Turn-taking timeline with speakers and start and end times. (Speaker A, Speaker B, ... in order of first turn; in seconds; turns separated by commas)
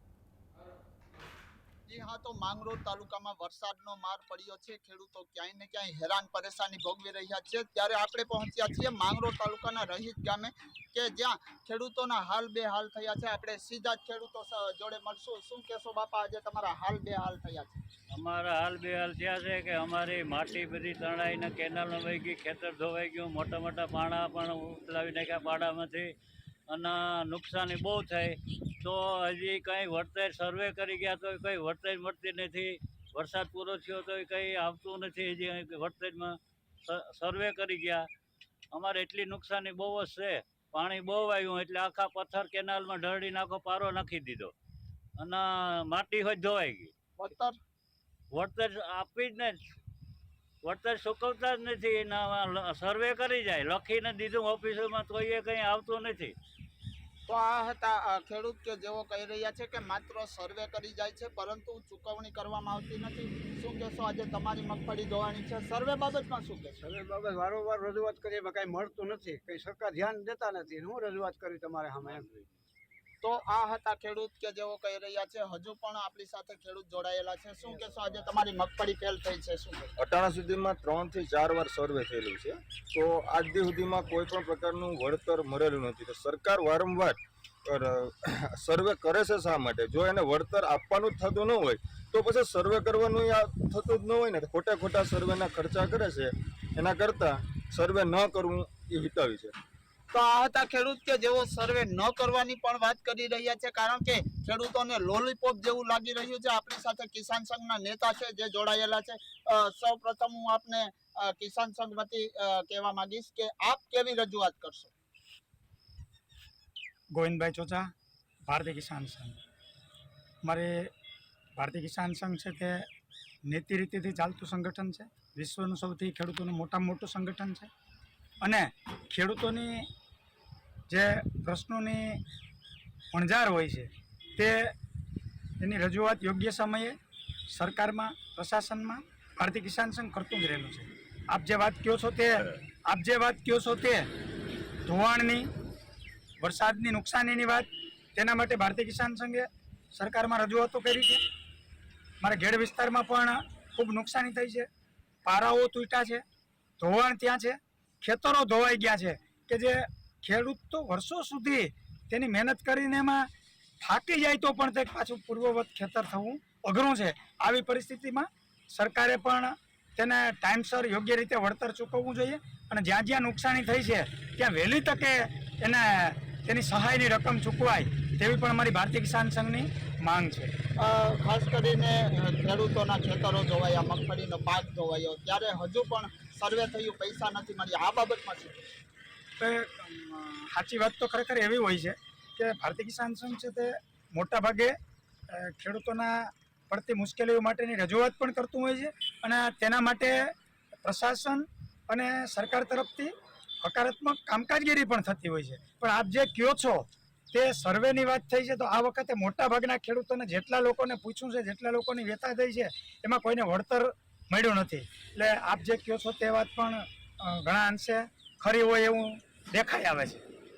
Speaker A: 1.9-17.8, Speaker B: 18.1-26.1, Speaker B: 26.7-38.0, Speaker B: 38.7-44.5, Speaker B: 45.2-46.9, Speaker A: 47.2-47.6, Speaker B: 48.3-49.6, Speaker B: 50.6-56.3, Speaker A: 57.3-66.8, Speaker C: 66.8-72.3, Speaker A: 73.2-79.9, Speaker D: 80.0-99.5, Speaker A: 100.1-114.9, Speaker E: 117.1-117.9, Speaker E: 118.5-119.4, Speaker E: 120.4-120.9, Speaker E: 121.6-122.8, Speaker E: 123.5-127.7, Speaker E: 128.4-129.9, Speaker E: 130.9-132.2, Speaker E: 133.1-134.7, Speaker E: 135.6-137.0, Speaker E: 137.5-144.1, Speaker E: 144.8-145.5, Speaker E: 146.4-151.2, Speaker E: 152.2-154.7, Speaker E: 155.2-156.2, Speaker E: 156.8-163.3, Speaker E: 163.8-180.5, Speaker A: 180.8-188.7, Speaker E: 189.4-194.8, Speaker E: 195.3-220.2